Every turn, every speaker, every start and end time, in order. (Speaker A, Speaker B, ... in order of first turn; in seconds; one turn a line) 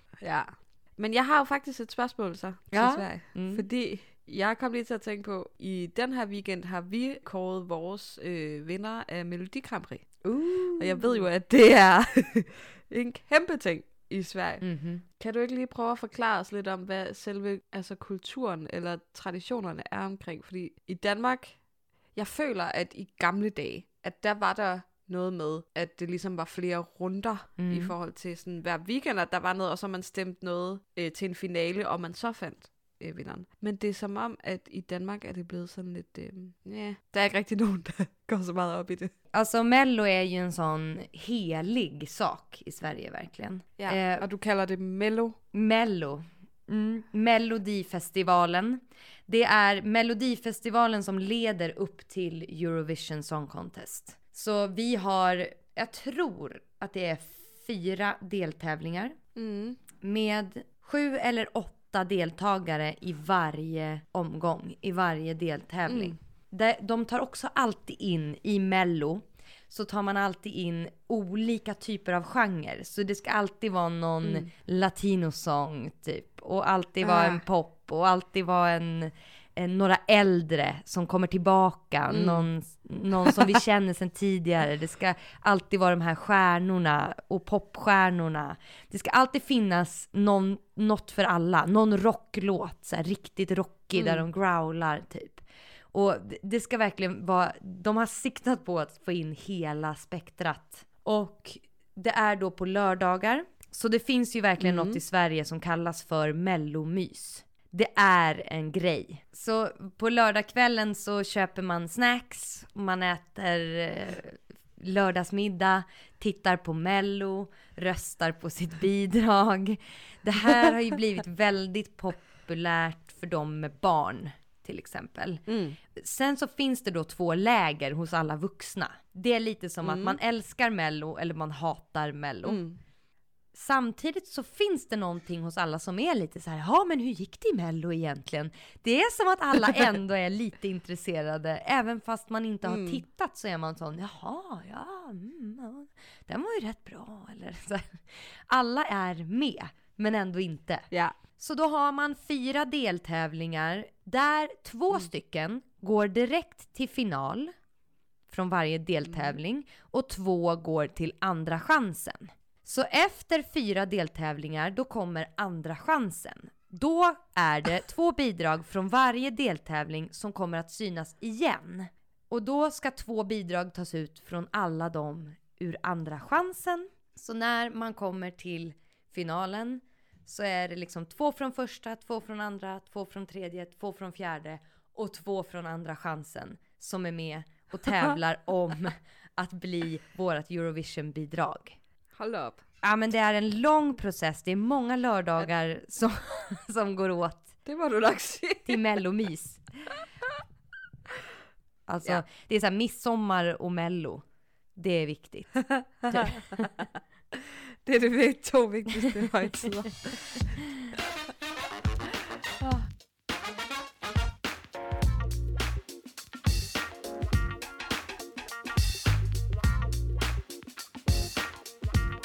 Speaker A: 0.2-10.2
Speaker B: 2.7-3.7
Speaker B: 10.2-11.3
Speaker A: 10.8-39.1
Speaker B: 14.6-15.0
Speaker B: 27.6-27.9
Speaker B: 39.3-44.3
Speaker A: 43.8-45.4
Speaker B: 45.5-59.1
Speaker A: 59.4-59.8
Speaker B: 60.0-132.6
Speaker A: 65.8-66.2
Speaker A: 74.2-74.5
Speaker A: 77.0-77.4
Speaker A: 82.1-82.5
Speaker A: 94.0-94.2
Speaker A: 104.6-105.0
Speaker A: 125.5-125.8
Speaker A: 129.8-130.2
Speaker A: 132.4-132.8
Speaker B: 133.5-157.5
Speaker A: 142.6-143.0
Speaker A: 150.9-151.2
Speaker B: 158.3-191.8
Speaker A: 159.1-159.3
Speaker A: 192.2-192.6
Speaker B: 192.8-197.5
Speaker A: 197.6-198.8
Speaker B: 198.7-199.6
Speaker B: 201.9-206.8
Speaker A: 206.0-206.8
Speaker A: 207.3-210.7